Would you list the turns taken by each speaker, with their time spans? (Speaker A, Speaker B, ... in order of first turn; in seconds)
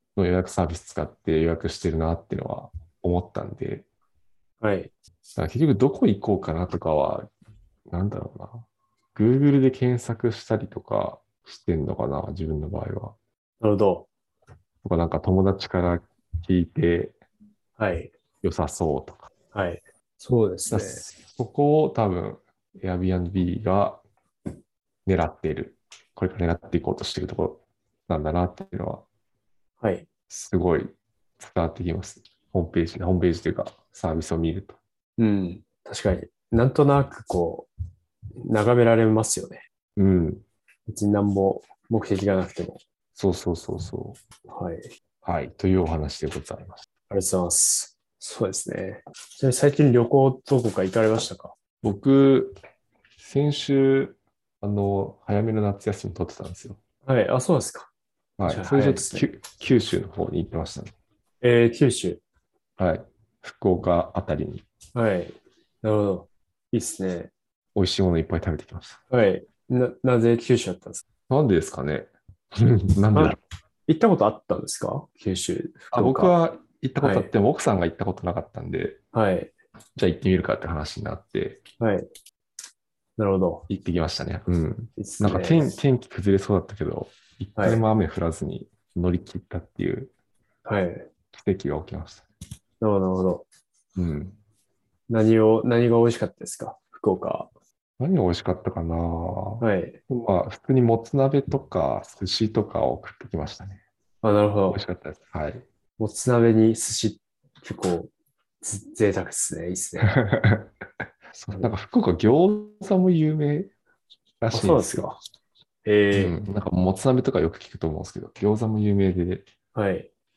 Speaker A: 0.2-3.9, 5.4-7.3, 7.9-13.2, 14.8-17.2, 18.4-19.3, 20.7-24.0, 25.1-29.1, 30.3-34.8, 40.0-40.5, 43.2-44.2, 45.2-46.8, 51.8-52.6, 53.2-56.8, 58.4-60.9, 62.8-64.7, 67.8-69.0, 71.3-73.4, 75.9-79.0, 80.0-81.6, 83.7-90.1, 91.3-92.2, 94.0-94.4, 98.0-103.8, 104.7-105.7, 110.0-110.7, 111.3-113.7, 114.4-115.1, 116.1-119.5
Speaker B: 4.6-4.9, 13.6-14.1, 17.8-18.1, 19.5-21.1, 29.8-30.1, 35.2-37.7, 38.4-39.6, 40.9-42.8, 44.5-44.9, 47.1-51.5, 57.1-57.9, 58.5-59.3, 61.4-62.2, 65.0-67.3, 69.1-71.0, 73.1-76.3, 77.0-77.3, 79.1-79.5, 81.8-82.1, 83.2-83.7, 85.0-85.8, 87.6-87.8, 90.7-91.1, 92.8-93.5, 95.1-97.5, 99.6-100.0, 104.2-104.8, 106.0-108.1, 108.6-110.2, 114.5-115.2, 115.8-116.4, 119.7-120.1